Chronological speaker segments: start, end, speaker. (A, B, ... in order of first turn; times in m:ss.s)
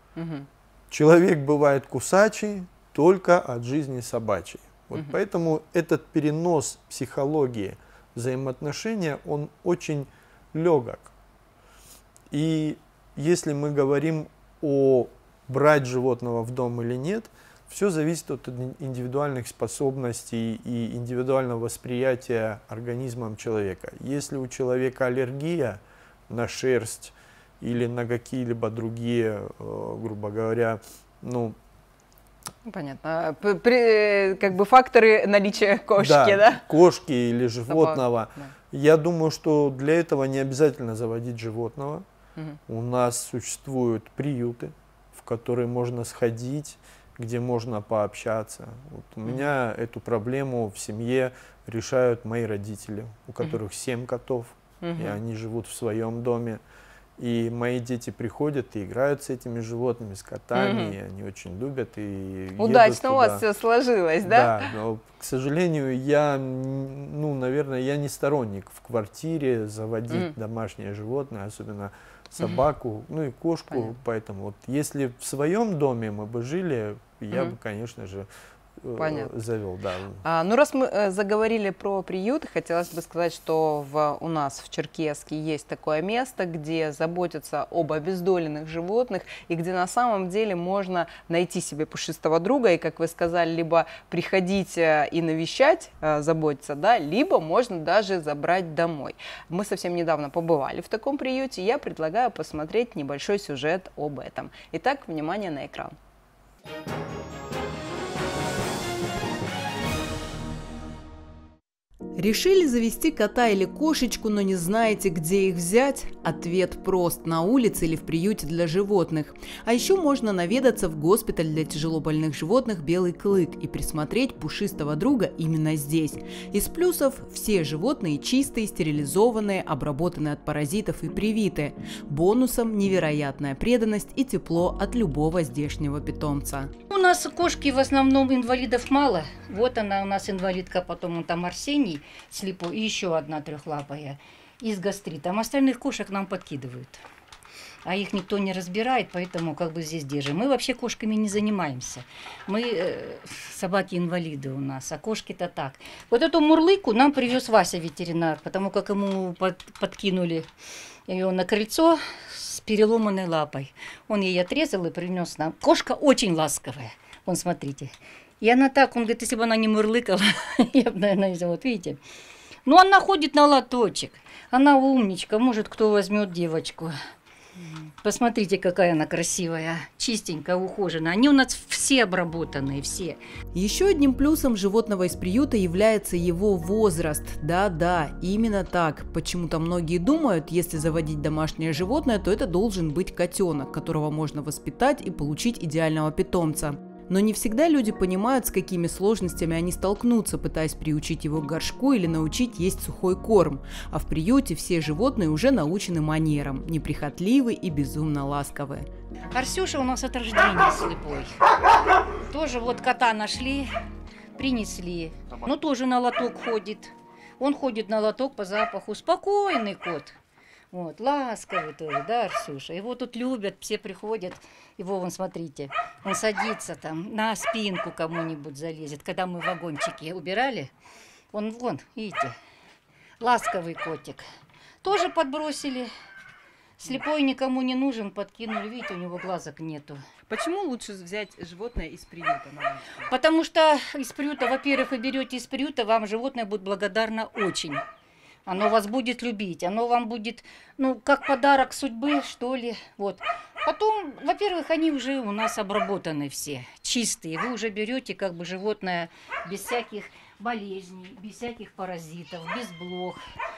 0:00.2-0:00.5 A
0:00.9-0:11.1 B
0:12.3-0:31.6 B
0:32.6-0:36.6 A
0:36.0-0:42.0 B
0:37.7-0:38.5 A
0:42.7-0:56.6 B
0:49.2-0:49.5 A
0:54.8-0:55.2 A
0:57.2-1:03.4 B
1:00.5-1:01.0 A
1:02.6-1:04.7 A
1:04.2-1:18.3 B
1:13.7-1:14.0 A
1:18.8-1:20.2 B
1:19.0-1:19.3 A
1:20.2-1:45.9 A
1:52.2-2:16.7 A
2:16.9-2:27.0 C
2:27.8-2:40.5 C
2:41.1-2:52.0 C
2:52.6-2:57.0 C
2:58.0-3:03.2 C
3:03.5-3:28.9 A
3:29.3-3:31.4 C
3:32.2-3:33.7 C
3:34.4-3:40.2 C
3:40.7-3:50.7 C
3:51.3-3:52.3 C
3:53.2-3:54.2 C
3:54.8-3:55.9 C
3:56.8-4:00.0 C
4:00.3-4:03.1 A
4:03.1-4:07.8 C
4:08.4-4:23.2 C